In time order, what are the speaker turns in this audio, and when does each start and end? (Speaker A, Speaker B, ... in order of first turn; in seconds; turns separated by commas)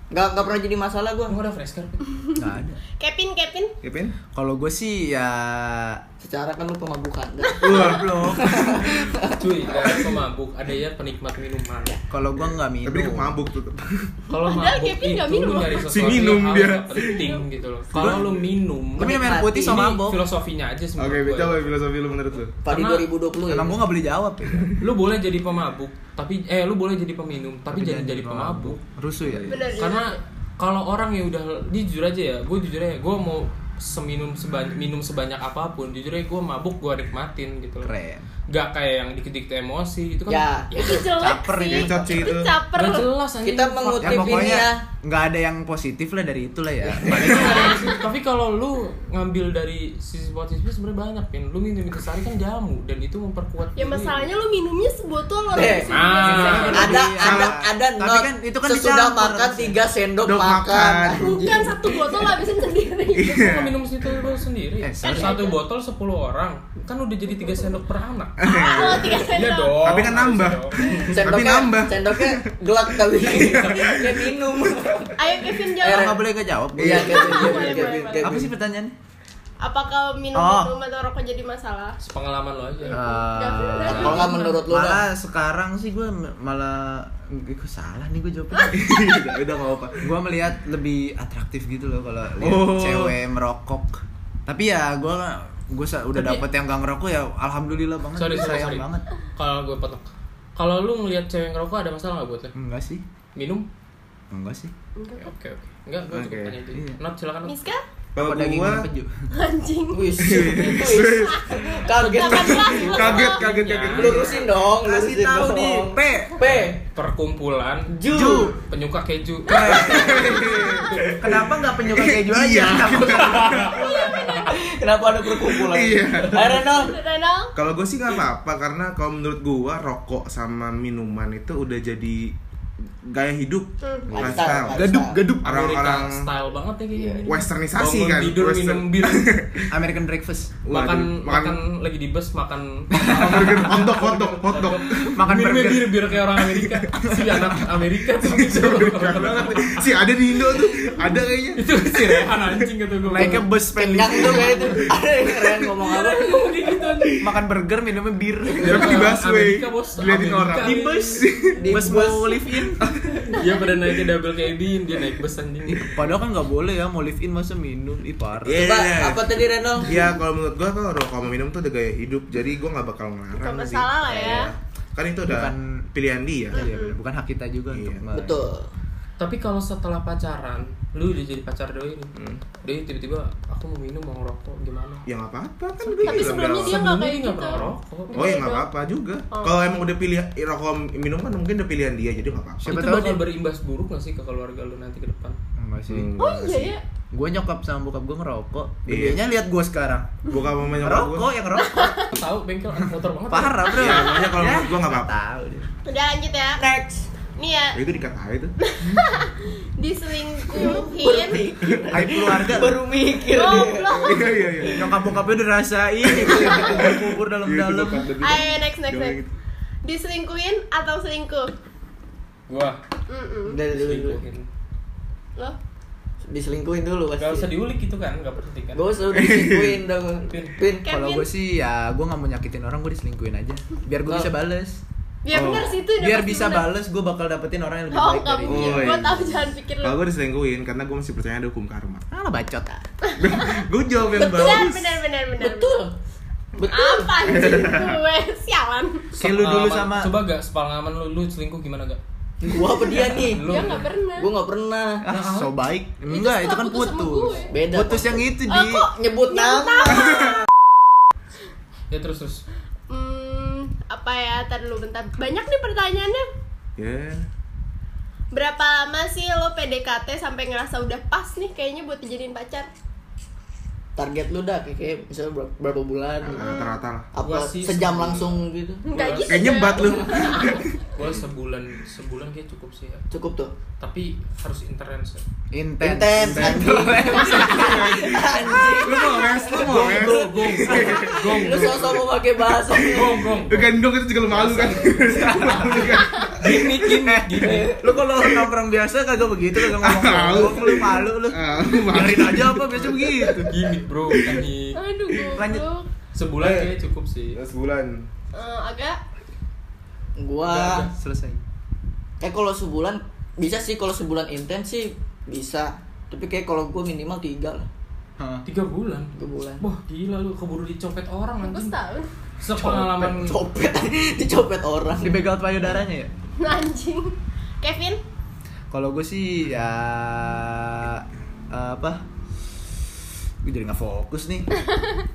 Speaker A: 0.1-1.4, Speaker B: 1.3-2.1, Speaker C: 2.4-2.8, Speaker D: 3.0-3.7, Speaker E: 3.8-4.2, Speaker C: 4.3-6.0, Speaker A: 6.2-10.1, Speaker E: 7.6-8.5, Speaker C: 7.7-9.0, Speaker B: 9.3-12.0, Speaker C: 12.1-13.4, Speaker E: 12.8-14.1, Speaker B: 14.3-21.7, Speaker D: 14.4-16.4, Speaker E: 15.8-17.3, Speaker D: 16.9-17.4, Speaker C: 17.9-18.2, Speaker C: 19.0-20.2, Speaker A: 19.0-20.0, Speaker E: 21.0-22.6, Speaker A: 22.6-23.8, Speaker B: 22.7-23.1, Speaker C: 23.5-24.7, Speaker B: 24.8-28.8, Speaker C: 27.7-29.6, Speaker E: 29.3-29.6, Speaker D: 29.5-30.2, Speaker B: 29.8-37.9, Speaker C: 37.8-38.3, Speaker B: 38.5-41.0, Speaker A: 40.3-41.1, Speaker D: 40.7-43.1, Speaker C: 41.2-42.3, Speaker E: 41.7-42.5, Speaker B: 42.7-44.7, Speaker A: 43.5-44.8, Speaker C: 44.0-47.9, Speaker B: 47.1-54.3, Speaker D: 53.8-57.1, Speaker A: 55.5-55.9, Speaker B: 55.9-57.1, Speaker C: 56.2-59.8, Speaker A: 56.5-61.8, Speaker E: 57.2-57.6, Speaker E: 60.2-61.6, Speaker D: 61.2-63.5, Speaker E: 63.1-63.8, Speaker B: 63.3-71.1, Speaker C: 64.8-65.5, Speaker D: 65.0-65.6, Speaker E: 68.4-69.3, Speaker D: 68.5-69.8, Speaker E: 69.8-74.4, Speaker A: 71.1-76.2, Speaker D: 75.2-76.2, Speaker C: 75.8-79.0, Speaker A: 76.8-78.5, Speaker D: 76.9-78.3, Speaker D: 79.6-82.0, Speaker C: 80.3-80.7, Speaker B: 82.0-83.0, Speaker D: 82.8-84.6, Speaker C: 82.9-88.8, Speaker B: 83.9-84.5, Speaker A: 83.9-85.1, Speaker E: 88.7-90.1, Speaker C: 90.0-99.1, Speaker E: 92.4-93.2, Speaker B: 96.2-96.4, Speaker B: 98.2-102.5, Speaker C: 102.5-103.0, Speaker B: 103.3-103.7, Speaker C: 104.3-104.7, Speaker D: 105.0-105.3, Speaker B: 105.2-107.6, Speaker E: 106.1-106.6, Speaker C: 106.7-107.0, Speaker D: 107.5-107.8, Speaker E: 108.2-108.9, Speaker C: 108.2-109.3, Speaker D: 109.3-113.4, Speaker A: 109.9-113.2, Speaker E: 110.2-111.7, Speaker B: 112.0-114.3, Speaker E: 112.7-114.4, Speaker A: 113.9-116.8, Speaker C: 114.8-116.4, Speaker B: 116.4-120.4, Speaker A: 117.9-118.5, Speaker C: 118.1-118.6, Speaker C: 119.5-124.2, Speaker A: 119.7-120.5, Speaker E: 119.8-124.0, Speaker B: 123.0-124.5, Speaker D: 123.6-124.6, Speaker A: 124.5-127.0, Speaker E: 125.5-126.6, Speaker D: 126.6-127.5, Speaker E: 127.5-132.3, Speaker E: 133.1-136.3, Speaker D: 133.8-134.1, Speaker A: 134.1-135.2, Speaker C: 134.1-135.5, Speaker B: 135.4-139.3, Speaker A: 136.9-137.3, Speaker E: 137.3-139.7, Speaker C: 139.7-140.6, Speaker E: 140.6-141.6, Speaker B: 140.7-150.0, Speaker C: 142.9-143.7, Speaker E: 143.1-145.1, Speaker C: 145.1-146.1, Speaker E: 146.5-146.8, Speaker C: 147.1-147.4, Speaker E: 148.2-152.5, Speaker B: 151.6-153.5, Speaker C: 153.1-154.8, Speaker A: 153.8-156.5, Speaker B: 155.8-157.2, Speaker C: 157.2-159.1, Speaker B: 158.6-161.3, Speaker E: 158.6-161.6, Speaker C: 160.6-162.8, Speaker A: 161.6-162.4, Speaker E: 162.8-163.3, Speaker B: 163.3-166.2, Speaker C: 165.7-168.8, Speaker E: 168.4-169.3, Speaker A: 168.6-170.1, Speaker E: 169.8-176.6, Speaker D: 173.4-174.5, Speaker C: 175.3-175.8, Speaker C: 176.5-178.4, Speaker D: 176.5-177.0, Speaker E: 177.7-178.1, Speaker A: 178.1-178.7, Speaker B: 179.2-185.1, Speaker E: 182.2-182.4, Speaker E: 185.1-186.8, Speaker D: 186.0-188.7, Speaker B: 186.6-188.4, Speaker E: 188.1-192.8, Speaker D: 189.3-189.6, Speaker C: 192.6-193.2, Speaker B: 192.7-195.4, Speaker C: 195.6-196.1, Speaker E: 195.9-196.8, Speaker D: 196.2-196.8, Speaker C: 197.1-200.2, Speaker E: 198.9-199.2, Speaker E: 200.3-201.3, Speaker C: 200.8-202.0, Speaker D: 201.6-202.1, Speaker B: 202.1-203.8, Speaker C: 203.3-205.7, Speaker E: 203.7-205.2, Speaker D: 203.8-204.3, Speaker D: 205.8-206.6, Speaker A: 206.6-207.1, Speaker D: 207.4-207.8, Speaker E: 207.7-208.5, Speaker D: 208.6-211.4, Speaker A: 210.5-214.9, Speaker C: 211.9-212.8, Speaker D: 213.3-214.6, Speaker E: 213.9-215.2, Speaker C: 214.6-218.1, Speaker A: 216.2-216.8, Speaker E: 216.2-219.3, Speaker D: 218.2-219.2, Speaker D: 219.8-221.5, Speaker B: 222.5-222.8, Speaker D: 223.1-223.6, Speaker A: 223.4-224.2, Speaker B: 223.7-224.5, Speaker A: 226.2-227.5, Speaker B: 227.2-228.8, Speaker A: 228.8-230.9, Speaker E: 229.1-229.8, Speaker B: 230.3-230.6, Speaker D: 230.8-231.3, Speaker C: 230.9-234.8, Speaker A: 234.1-234.3, Speaker D: 235.2-236.7, Speaker E: 235.3-235.8, Speaker C: 236.0-239.2, Speaker D: 237.9-240.0, Speaker E: 238.5-242.1, Speaker C: 242.1-242.8, Speaker D: 243.1-243.6, Speaker E: 243.2-245.0, Speaker A: 244.1-244.7, Speaker D: 244.2-245.8, Speaker A: 245.4-245.9, Speaker A: 246.6-247.5, Speaker D: 246.7-249.1, Speaker E: 247.3-248.0, Speaker B: 249.1-252.0, Speaker C: 249.2-250.2, Speaker A: 252.4-253.6, Speaker B: 252.8-253.9, Speaker D: 253.4-254.3, Speaker A: 254.2-255.1, Speaker C: 255.0-258.9, Speaker B: 255.1-255.5, Speaker D: 256.1-257.5, Speaker A: 257.5-260.3, Speaker D: 258.5-260.3, Speaker B: 261.9-262.4, Speaker D: 262.9-266.3, Speaker E: 266.8-267.2, Speaker D: 268.3-272.7, Speaker A: 274.0-276.6, Speaker E: 276.2-277.1, Speaker D: 276.4-276.8, Speaker A: 277.1-278.9, Speaker B: 277.2-279.6, Speaker D: 278.9-280.6, Speaker E: 279.3-281.1, Speaker B: 280.9-283.1, Speaker A: 283.1-283.5, Speaker B: 283.8-285.2, Speaker C: 285.5-288.2, Speaker A: 285.8-293.2, Speaker E: 287.2-292.0, Speaker D: 288.8-289.3, Speaker B: 289.5-292.0, Speaker B: 292.9-293.8, Speaker E: 293.5-296.6, Speaker B: 294.3-297.8, Speaker C: 295.2-295.8, Speaker C: 296.9-303.5, Speaker A: 297.4-297.8, Speaker E: 299.6-303.5, Speaker B: 303.5-304.8, Speaker D: 304.8-305.9, Speaker C: 305.4-305.7, Speaker B: 306.1-307.4, Speaker E: 306.4-306.7, Speaker E: 307.4-308.1, Speaker D: 308.3-309.0, Speaker A: 310.2-310.9, Speaker B: 310.4-310.9, Speaker C: 310.7-311.4, Speaker A: 312.2-317.7, Speaker C: 318.2-318.4, Speaker B: 318.5-321.8, Speaker A: 319.2-319.6, Speaker D: 321.4-322.1, Speaker B: 322.4-323.4, Speaker C: 322.6-323.1, Speaker A: 323.0-325.2, Speaker C: 325.0-326.1, Speaker D: 326.4-328.0, Speaker C: 328.7-332.1, Speaker C: 333.4-334.5